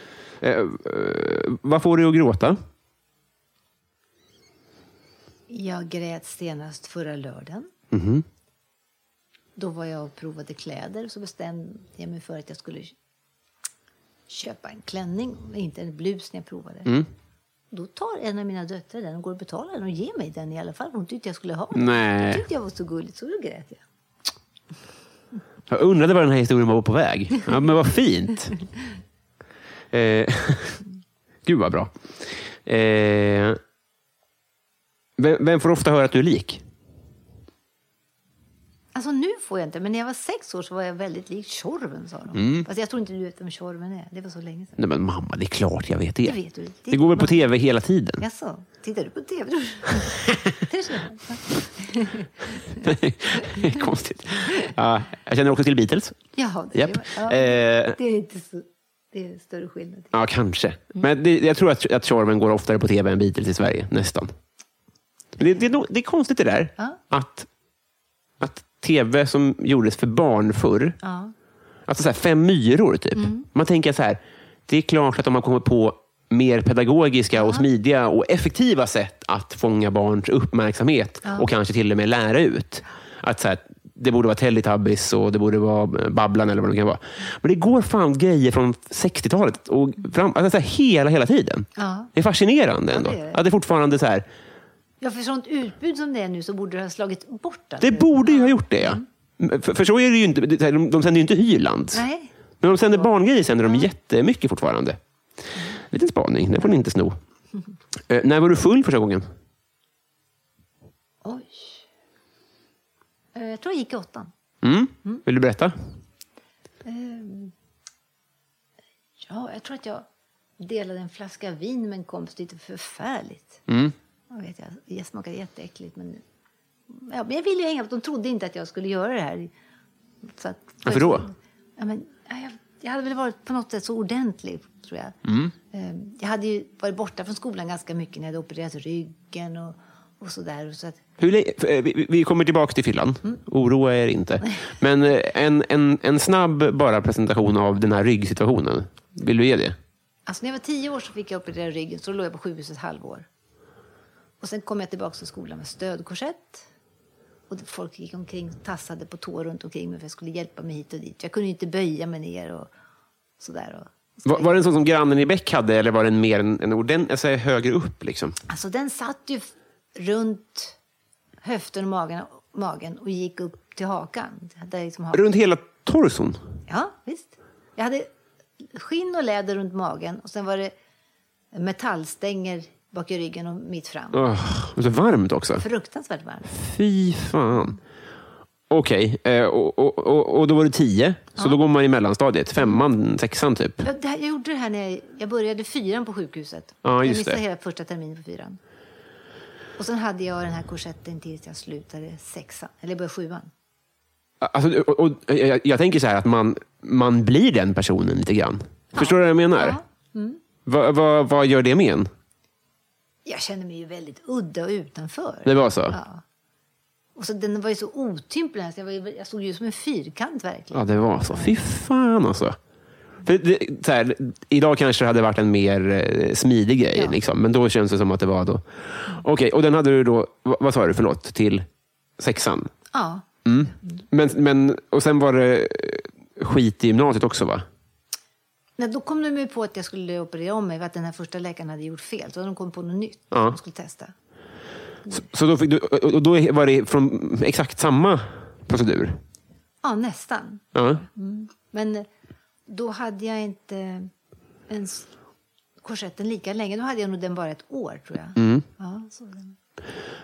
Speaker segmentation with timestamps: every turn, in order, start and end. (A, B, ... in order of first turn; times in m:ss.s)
0:00.4-0:02.6 A
0:05.5-0:07.7 B
0:07.9-0:08.3 A
0:09.6-0:13.0 B
0:14.3-0:16.9 B
0:17.7-0:23.8 B
0:21.7-0:22.5 A
0:25.7-0:28.6 A
0:29.9-0:30.8 A
0:31.4-0:33.6 A
0:35.2-0:36.6 A
0:38.9-0:44.8 B
0:42.4-0:42.7 A
0:44.8-0:46.4 A
0:46.2-0:47.5 B
0:46.9-0:48.2 A
0:48.2-0:53.8 B
0:52.8-0:58.0 A
0:56.4-1:00.1 B
1:00.1-1:04.3 A
1:05.4-1:07.5 A
1:08.4-1:11.0 A
1:11.0-1:11.3 B
1:11.9-1:34.3 A
1:13.2-1:13.5 B
1:17.4-1:17.7 B
1:21.2-1:21.5 B
1:31.8-1:32.1 B
1:32.9-1:33.4 B
1:35.0-1:39.0 B
1:37.8-1:42.0 A
1:41.9-1:42.3 B
1:42.6-1:45.0 A
1:45.8-1:47.2 A
1:48.1-1:49.3 A
1:51.2-1:51.9 B
1:53.3-1:54.3 B
1:54.6-1:55.8 A
1:56.8-1:57.5 B
1:59.2-2:00.1 B
2:00.6-2:03.6 B
2:03.7-2:04.0 A
2:04.3-2:06.2 B
2:06.9-2:09.5 B
2:10.4-2:15.2 B
2:10.8-2:11.3 A
2:15.2-2:15.5 A
2:15.7-2:21.0 B
2:21.2-2:29.8 A
2:30.3-2:33.3 B
2:34.4-2:36.7 B
2:37.5-2:42.7 B
2:43.4-2:44.7 B
2:44.2-2:48.4 A
2:48.5-2:50.8 B
2:51.4-2:55.3 B
2:55.1-2:56.4 A
2:56.7-2:58.1 B
2:58.6-3:00.7 B
3:01.5-3:04.3 B
3:04.1-3:05.6 A
3:05.6-3:06.6 B
3:06.5-3:07.8 A
3:08.7-3:13.9 A
3:13.8-3:18.6 B
3:16.8-3:17.4 A
3:19.8-3:23.5 B
3:24.4-3:29.8 A
3:29.0-3:30.4 B
3:30.7-3:32.1 A
3:33.2-3:36.2 B
3:35.4-3:36.0 A
3:37.2-3:41.6 B
3:40.7-3:42.6 A
3:43.2-3:51.7 A
3:52.2-3:52.7 A
3:52.9-3:53.2 B
3:53.4-3:57.6 A
3:58.8-4:04.1 B
4:03.3-4:03.6 A
4:05.1-4:09.2 A
4:09.8-4:12.1 B
4:10.7-4:11.0 A
4:12.7-4:14.1 B
4:14.7-4:15.1 B
4:15.8-4:19.6 B
4:18.4-4:18.6 A